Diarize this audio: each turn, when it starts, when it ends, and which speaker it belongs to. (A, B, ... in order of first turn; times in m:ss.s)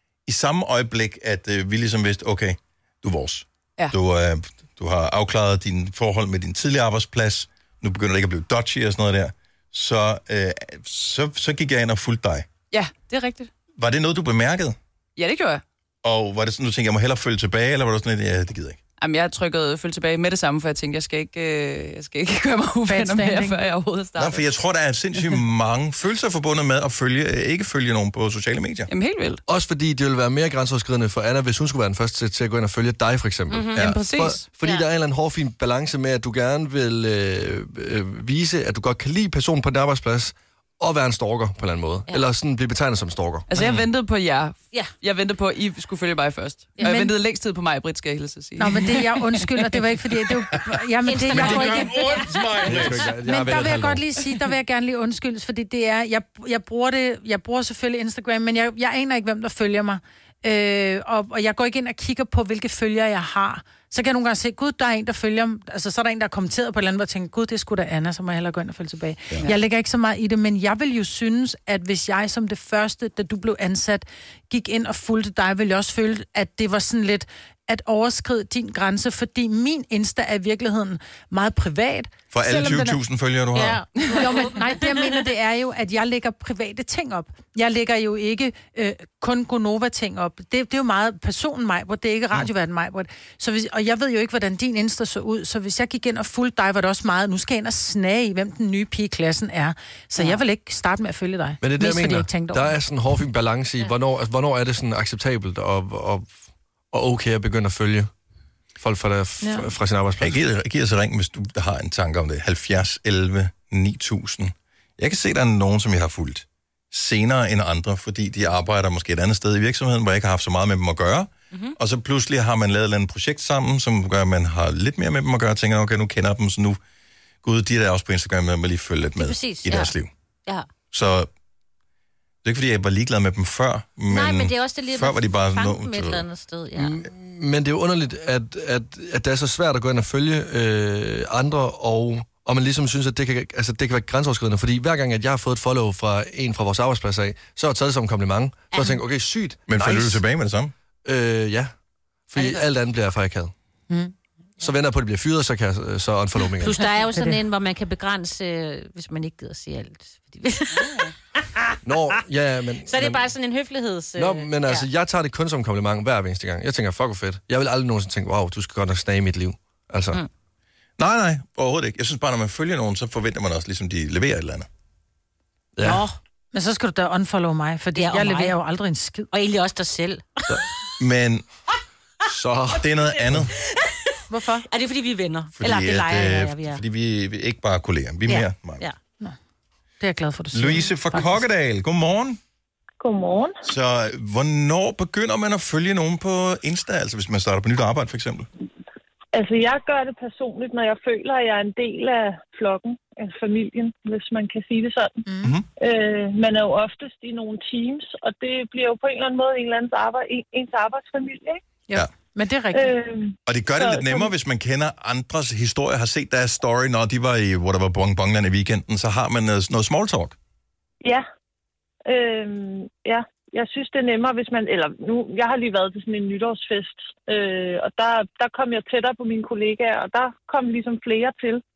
0:00.2-0:12.5 A
0:12.7-0:13.5 B
0:13.8-0:14.8 A
0:15.2-0:15.6 B
0:16.0-0:18.8 A
0:19.0-0:24.4 B
0:22.9-0:23.6 C
0:24.2-0:28.9 A
0:28.9-0:29.4 B
0:29.5-0:43.5 D
0:33.5-0:33.9 E
0:33.8-0:34.4 B
0:34.6-0:34.9 E
0:43.5-0:49.4 B
0:43.5-0:43.9 A
0:46.8-0:47.1 C
0:48.6-0:52.2 C
0:51.0-0:52.9 E
0:51.3-0:53.1 A
0:52.6-0:54.0 D
0:53.2-1:23.0 C
1:22.3-1:23.8 A
1:23.6-1:25.2 E
1:24.0-1:42.7 C
1:41.6-1:46.3 D
1:46.9-1:48.1 D
1:48.8-1:50.4 D
1:50.2-2:06.8 A
2:07.4-2:10.1 A
2:09.2-2:09.9 E
2:10.9-2:11.3 A
2:12.4-2:16.2 A
2:14.1-2:17.0 E
2:16.8-2:30.2 D
2:28.7-2:29.0 E
2:29.7-2:30.7 A
2:31.0-2:31.7 D
2:32.3-2:33.5 D
2:32.4-2:32.7 E
2:34.6-2:36.8 D
2:36.6-2:41.8 E
2:37.1-2:37.4 C
2:41.8-2:43.2 D
2:42.9-2:44.9 E
2:44.2-2:50.2 D
2:51.0-2:54.7 A
2:55.8-2:56.0 D
2:55.8-2:56.1 E
2:56.5-2:59.3 C
2:58.0-2:58.6 E
2:59.3-3:00.6 E
3:01.0-3:01.4 A
3:02.2-3:03.4 D
3:02.7-3:03.5 A
3:03.6-3:04.2 E
3:04.3-3:04.7 C
3:04.7-3:06.8 E
3:05.6-3:08.8 A
3:08.3-3:09.0 E
3:10.0-3:11.4 C
3:10.5-3:12.4 A
3:13.0-3:13.6 F
3:13.6-3:18.5 A
3:19.3-3:25.2 F
3:25.2-3:25.6 C
3:25.8-3:31.6 F
3:31.9-3:32.9 C
3:32.7-3:34.3 F
3:33.4-3:40.4 A
3:42.0-3:51.6 F